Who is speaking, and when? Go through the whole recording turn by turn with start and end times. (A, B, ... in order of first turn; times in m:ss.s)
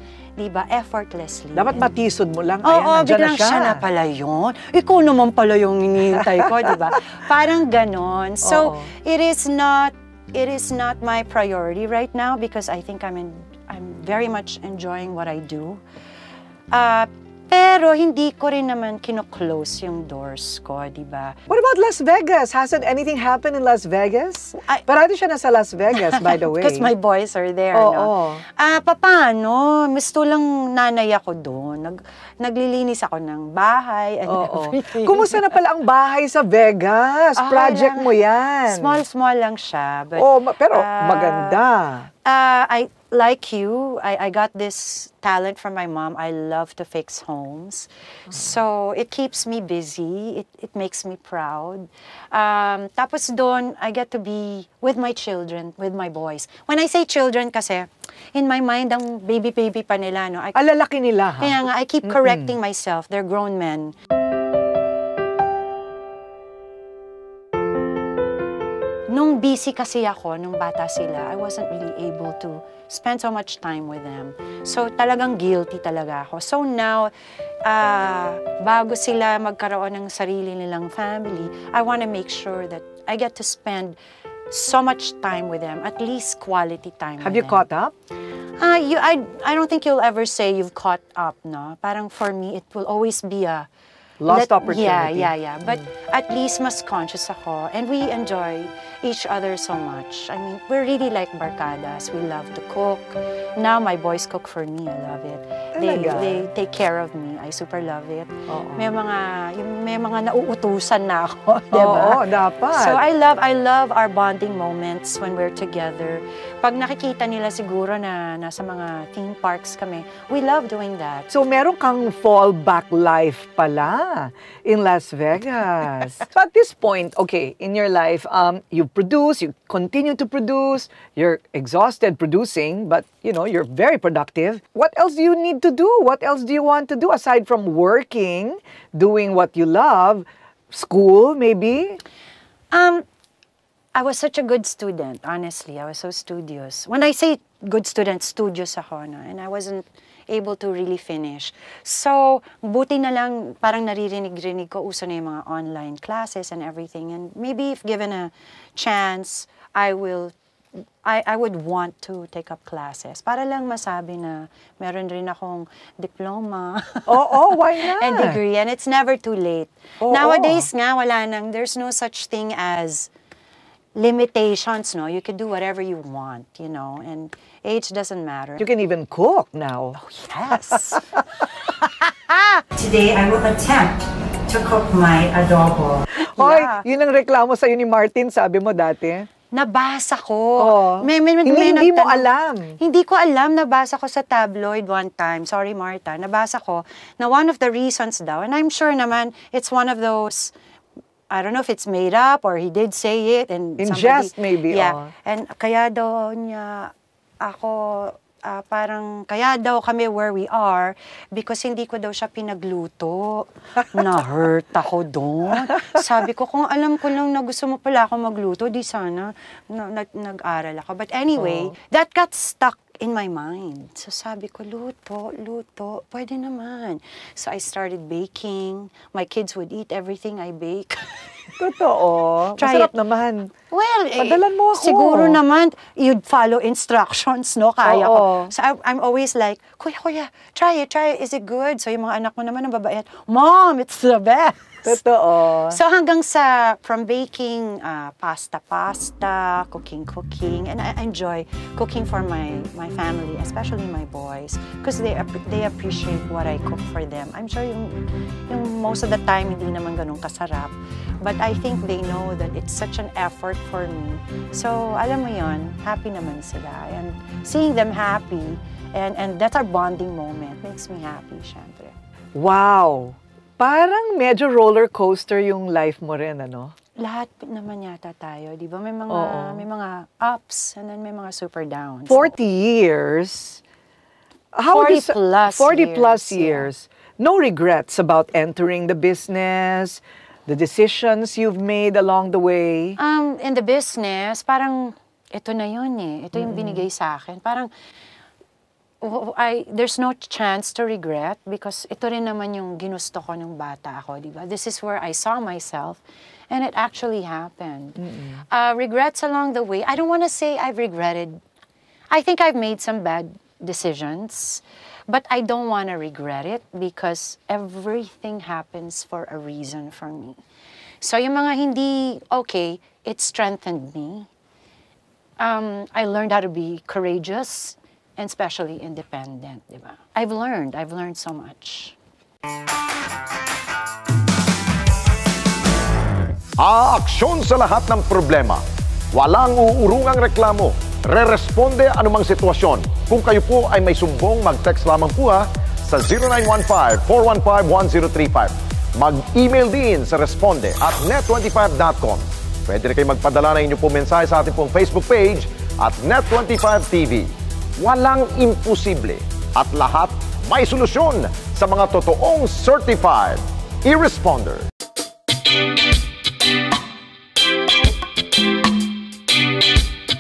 0:00.4-0:01.9 A
0:01.6-0:03.8 B
0:02.6-0:15.8 A
0:08.4-0:08.9 B
0:16.7-0:21.4 A
0:21.5-0:26.9 B
0:24.6-0:24.8 A
0:26.0-0:35.4 A
0:27.7-0:28.4 B
0:34.3-0:39.0 B
0:37.4-0:38.2 A
0:38.7-0:41.6 A
0:40.2-0:42.1 B
0:42.2-1:00.6 A
1:00.6-1:02.6 B
1:01.4-1:03.9 A
1:09.1-1:17.1 A
1:17.6-1:24.0 A
1:24.5-1:27.6 A
1:27.2-1:27.9 B
1:28.6-1:33.7 A
1:34.2-1:35.9 B
1:34.3-2:01.3 A
1:45.8-1:46.5 B
1:48.5-1:48.9 B
1:51.7-1:53.0 B
2:01.3-2:22.0 B
2:22.7-2:23.0 A
2:24.0-2:40.4 A
2:41.0-2:53.1 A
2:47.1-2:48.4 B
2:50.0-2:50.7 B
2:54.0-2:58.7 A
2:58.6-3:00.0 B
3:00.0-3:01.1 A
3:00.7-3:01.2 B
3:02.3-3:06.8 A
3:06.2-3:09.3 B
3:09.5-3:20.5 A
3:10.6-3:12.8 B
3:21.3-3:51.3 A
3:23.8-3:25.1 B
3:41.4-3:41.7 B
3:51.6-3:53.5 B
3:52.6-3:52.9 A
3:53.7-4:05.0 A
3:54.2-3:55.4 B
3:57.8-3:58.5 B
4:04.8-4:05.8 B
4:05.7-4:32.0 A
4:32.4-4:36.7 B
4:37.0-4:42.4 A
4:39.1-4:39.6 B
4:42.1-4:43.6 B
4:44.5-4:53.0 B
4:44.7-4:46.7 A
4:53.0-4:57.7 A
4:56.4-4:56.8 B
4:59.0-5:08.0 A
5:08.0-5:08.4 B
5:08.5-5:11.4 A
5:12.1-5:20.4 A
5:21.0-5:24.3 A
5:25.4-5:32.0 A
5:36.6-5:38.6 C
5:39.1-6:04.7 C